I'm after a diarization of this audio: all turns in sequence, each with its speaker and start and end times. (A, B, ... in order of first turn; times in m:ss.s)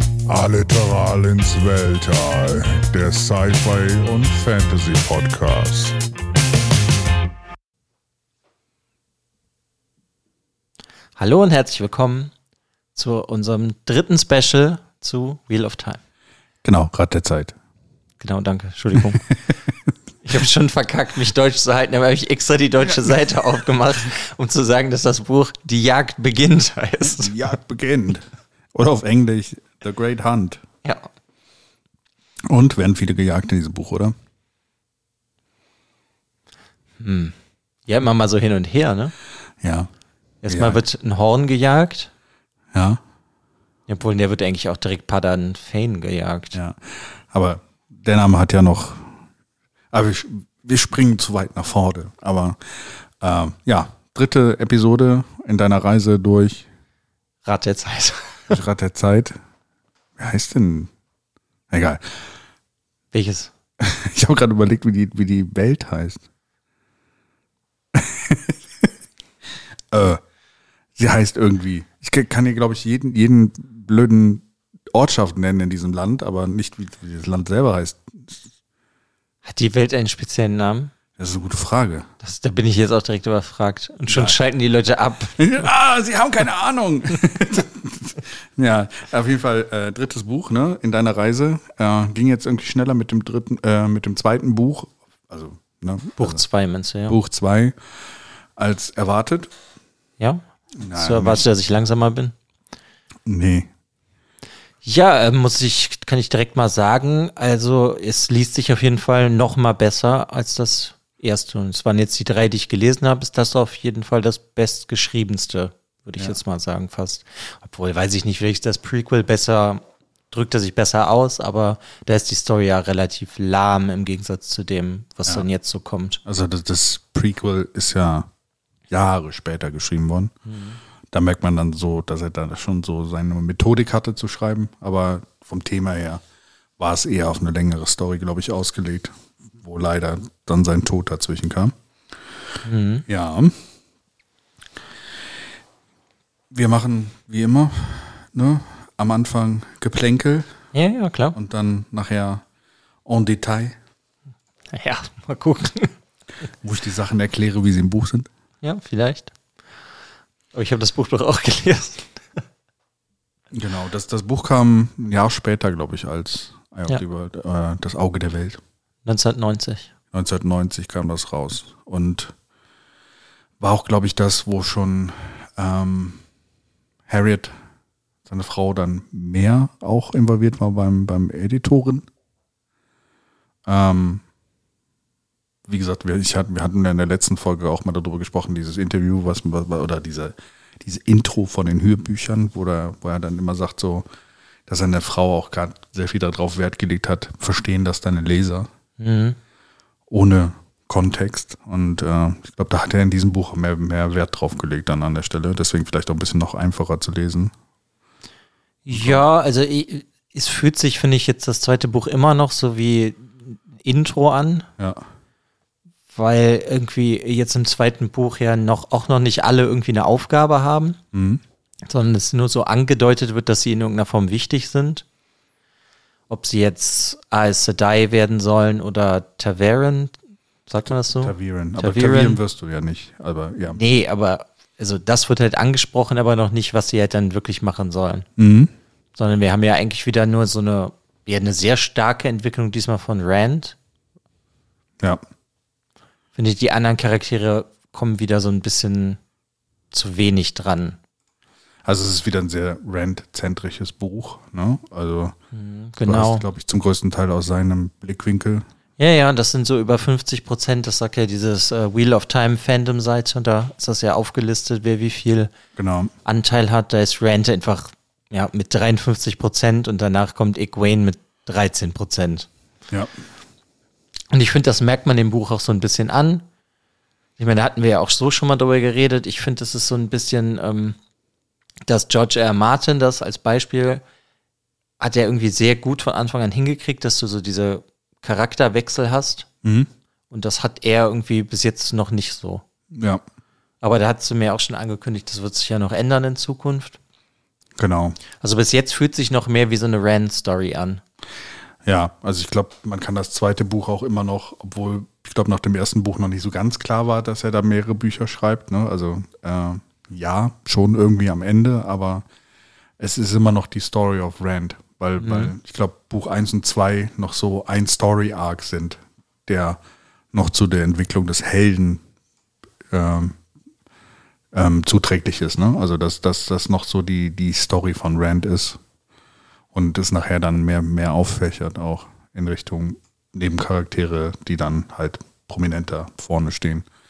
0:00.3-0:06.0 A
0:11.2-0:12.3 B
0:13.0-0:16.0 B
0:16.6-0:17.6 C
0:18.2-0:19.2 B
0:20.2-0:27.4 B
0:27.0-0:30.6 C
0:32.5-0:34.1 C
0:37.0-0:37.3 B
0:37.9-0:39.1 B
0:39.6-0:39.9 C
0:40.4-0:42.1 B
0:40.5-0:40.8 C
0:42.7-0:43.0 C
0:43.9-0:46.6 B
0:46.5-0:49.2 C
0:49.9-0:56.7 C
0:57.5-0:58.6 B
0:58.5-0:59.4 C
1:00.2-1:00.9 C
1:01.7-1:02.3 C
1:03.1-1:03.5 B
1:03.8-1:06.2 C
1:07.9-1:08.9 C
1:09.9-1:10.2 C
1:11.0-1:18.4 C
1:19.4-1:20.9 B
1:21.2-1:22.1 C
1:22.2-1:25.4 B
1:24.1-1:24.4 C
1:25.4-1:36.4 C
1:36.2-1:37.2 B
1:37.1-1:37.8 C
1:38.6-1:39.5 C
1:40.2-1:42.3 B
1:40.8-1:41.4 C
1:43.3-1:43.7 C
1:44.8-2:06.2 B
2:06.2-2:08.3 C
2:08.9-2:10.3 C
2:10.5-2:10.8 B
2:11.1-2:16.2 C
2:16.8-2:21.7 C
2:22.6-2:23.0 B
2:23.1-2:23.6 C
2:26.5-2:30.6 C
2:30.7-2:31.4 B
2:31.4-2:32.4 C
2:33.0-2:33.8 C
2:34.7-2:35.9 B
2:36.6-2:38.3 C
2:38.6-2:39.3 B
2:40.5-2:42.4 B
2:43.5-2:48.6 C
2:49.0-2:49.9 B
2:50.1-2:52.3 C
2:53.6-2:56.2 C
2:57.1-2:57.5 C
2:58.3-3:02.1 C
3:03.7-3:04.2 C
3:05.7-3:14.1 C
3:14.7-3:18.7 C
3:19.0-3:19.4 B
3:20.1-3:27.5 C
3:28.8-3:34.7 B
3:28.9-3:29.2 C
3:34.8-3:35.0 C
3:36.1-3:41.0 B
3:41.1-3:41.4 C
3:41.9-3:45.0 B
3:46.3-3:52.4 B
3:51.0-3:53.8 C
3:53.8-3:58.3 B
3:58.4-3:58.7 C
3:59.2-4:03.8 B
4:06.4-4:09.2 B
4:09.9-4:11.0 B
4:11.8-4:15.4 C
4:15.5-4:16.4 B
4:16.0-4:18.6 C
4:19.0-4:25.5 B
4:25.8-4:26.1 C
4:26.2-4:32.5 B
4:34.3-4:36.4 B
4:37.4-4:41.0 B
4:41.9-4:44.0 B
4:45.0-4:49.5 B
4:49.6-4:49.9 C
4:50.3-4:52.6 B
4:52.9-4:53.2 C
4:53.8-4:57.0 B
4:57.8-4:58.2 C
4:58.4-5:01.0 B
5:01.8-5:12.2 C
5:13.0-5:19.8 C
5:15.2-5:15.5 B
5:20.3-5:22.0 C
5:22.9-5:23.4 C
5:24.5-5:28.8 C
5:29.7-5:36.9 C